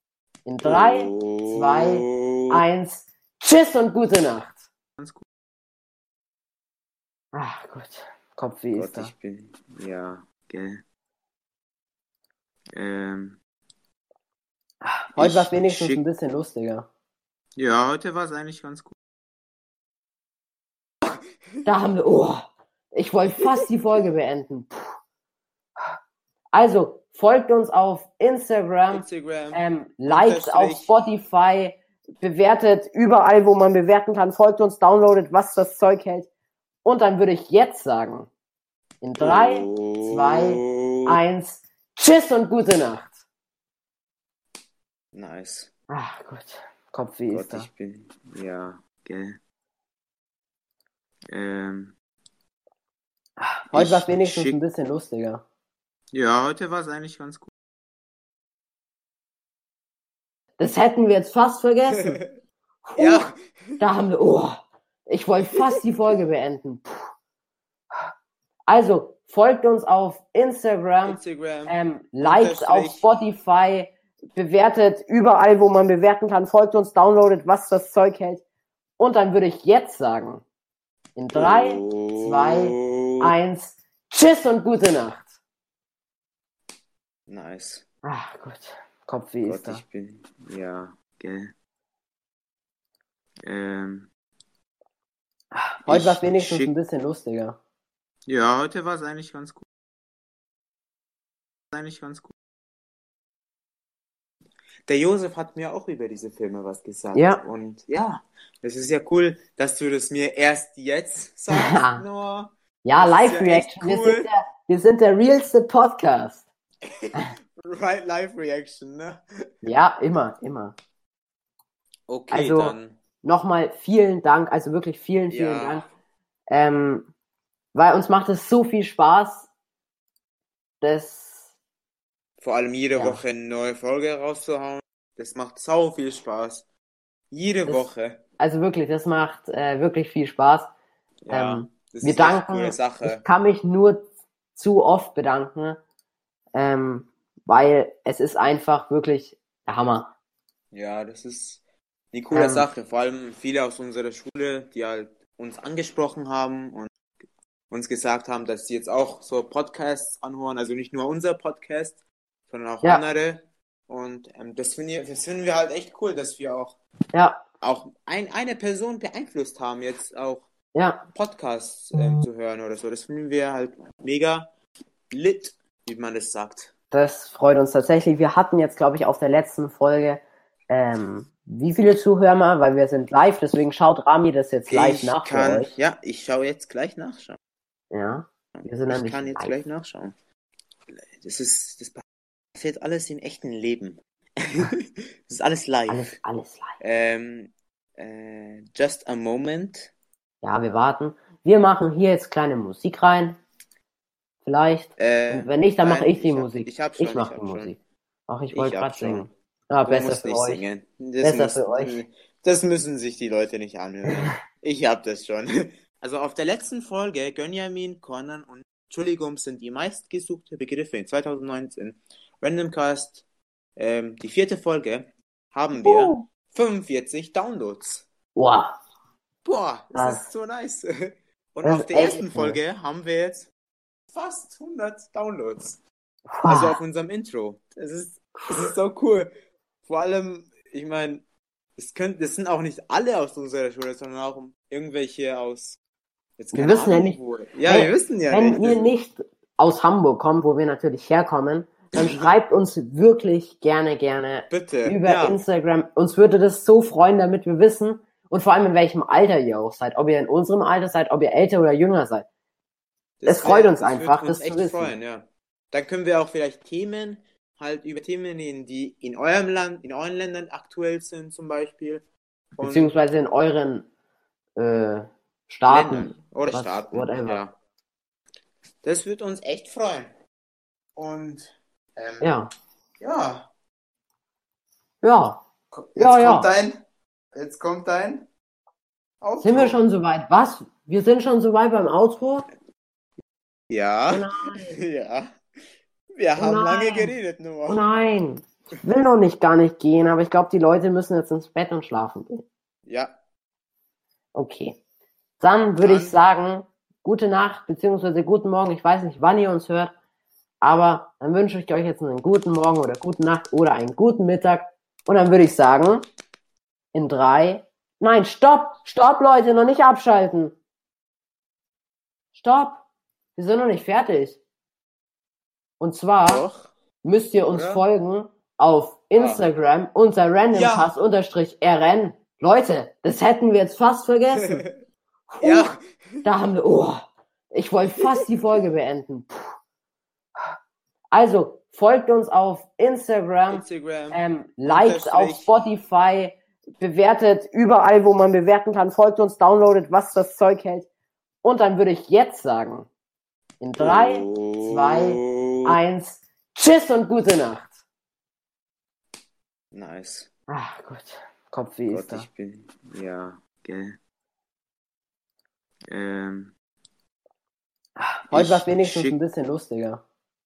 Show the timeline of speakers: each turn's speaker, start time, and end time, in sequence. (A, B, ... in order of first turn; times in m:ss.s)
0:00.4-0:04.6 A
0:00.6-0:02.6 B
0:05.0-0:05.2 B
0:07.3-0:09.1 A
0:08.7-0:10.8 B
0:12.7-0:13.4 B
0:14.8-0:16.9 A
0:15.2-0:16.0 B
0:17.6-0:19.0 B
0:21.0-0:21.6 B
0:21.6-0:25.0 A
0:26.5-0:36.3 A
0:28.9-0:31.0 B
0:36.8-0:38.3 A
0:39.0-0:43.2 A
0:39.2-0:41.2 B
0:45.1-0:45.7 B
0:45.9-0:47.7 A
0:47.3-0:49.4 B
0:51.3-0:51.9 B
0:53.4-0:55.4 A
0:53.7-0:54.6 B
0:56.1-0:57.5 B
1:00.6-1:02.2 A
1:01.9-1:02.3 B
1:02.8-1:03.3 A
1:03.0-1:03.8 B
1:03.8-1:07.1 A
1:08.7-1:18.4 A
1:11.0-1:13.2 B
1:19.0-1:20.4 A
1:21.2-1:25.3 A
1:21.3-1:23.3 B
1:27.3-1:27.8 B
1:28.0-1:29.8 A
1:29.4-1:31.5 B
1:33.4-1:34.1 B
1:35.5-1:37.6 A
1:35.9-1:36.7 B
1:38.3-1:39.6 B
1:41.7-1:42.3 B
1:44.8-1:54.3 B
1:47.1-1:47.4 A
1:51.5-1:52.0 A
1:52.8-1:56.4 A
1:56.8-1:59.2 B
1:59.6-2:00.7 A
2:02.1-2:03.0 B
2:02.3-2:05.8 A
2:05.3-2:05.9 B
2:06.5-2:07.1 A
2:07.7-2:09.5 A
2:10.8-2:11.5 A
2:12.4-2:16.6 B
2:17.3-2:18.2 B
2:18.4-2:20.7 A
2:21.2-2:23.2 B
2:21.3-2:25.8 A
2:26.5-2:30.1 A
2:30.7-2:36.9 B
2:32.3-2:32.7 A
2:37.7-2:46.8 B
2:47.1-2:47.4 A
2:47.6-2:50.5 B
2:50.7-2:51.0 A
2:51.1-2:54.5 B
2:55.1-2:56.7 B
2:56.9-3:05.7 A
3:04.7-3:07.4 B
3:07.9-3:09.5 A
3:08.5-3:10.1 B
3:10.9-3:12.0 B
3:12.5-3:16.2 B
3:15.9-3:16.8 A
3:16.8-3:19.9 B
3:20.4-3:23.4 A
3:24.4-3:30.6 A
3:25.0-3:27.8 B
3:28.5-3:29.3 B
3:29.8-3:43.2 B
3:31.2-3:32.0 A
3:34.1-3:34.4 A
3:43.8-3:48.1 B
3:45.8-3:46.2 A
3:48.3-3:48.7 A
3:49.4-3:53.5 B
3:49.9-3:50.3 A
3:51.6-3:52.6 A
3:54.1-3:55.8 B
3:56.3-3:56.8 A
3:56.4-3:59.3 B
3:58.4-3:58.7 A
3:59.8-4:01.2 B
4:01.8-4:05.8 B
4:06.4-4:08.9 B
4:06.5-4:22.3 A
4:12.0-4:12.3 B
4:14.5-4:15.4 B
4:23.2-4:32.9 B
4:23.2-4:24.9 A
4:32.6-4:33.9 A
4:34.6-4:37.4 A
4:35.7-4:37.6 B
4:38.8-4:40.1 B
4:41.0-4:42.3 B
4:42.2-4:42.5 A
4:43.0-4:43.5 B
4:45.0-4:45.4 A
4:45.7-4:46.8 B
4:46.0-4:46.5 A
4:47.3-4:48.3 B
4:49.2-4:49.8 B
4:49.4-4:52.5 A
4:53.7-4:55.4 B
4:54.1-4:54.8 A
4:56.1-4:57.8 B
4:56.4-4:57.1 A
4:57.6-5:02.4 A
5:02.8-5:03.1 B
5:04.3-5:04.8 A
5:05.4-5:09.9 A
5:05.8-5:06.2 B
5:10.6-5:16.0 A
5:16.9-5:20.5 A
5:22.3-5:22.8 A
5:23.4-5:24.4 A
5:25.8-5:26.5 A
5:26.3-5:26.7 B
5:27.0-5:34.6 A
5:27.5-5:27.8 B
5:29.2-5:29.4 B
5:30.5-5:30.9 B
5:34.4-5:34.8 B
5:35.3-5:35.7 A
5:35.4-5:36.3 B
5:36.2-5:39.5 A
5:38.0-5:38.2 B
5:41.1-5:50.9 A
5:43.5-5:45.6 B
5:51.4-5:52.9 A
5:53.6-5:57.7 A
5:53.8-5:55.8 B
5:59.7-6:00.3 B
6:00.5-6:02.3 A
6:01.9-6:04.0 B
6:05.9-6:06.5 B
6:08.0-6:10.0 A
6:08.3-6:09.2 B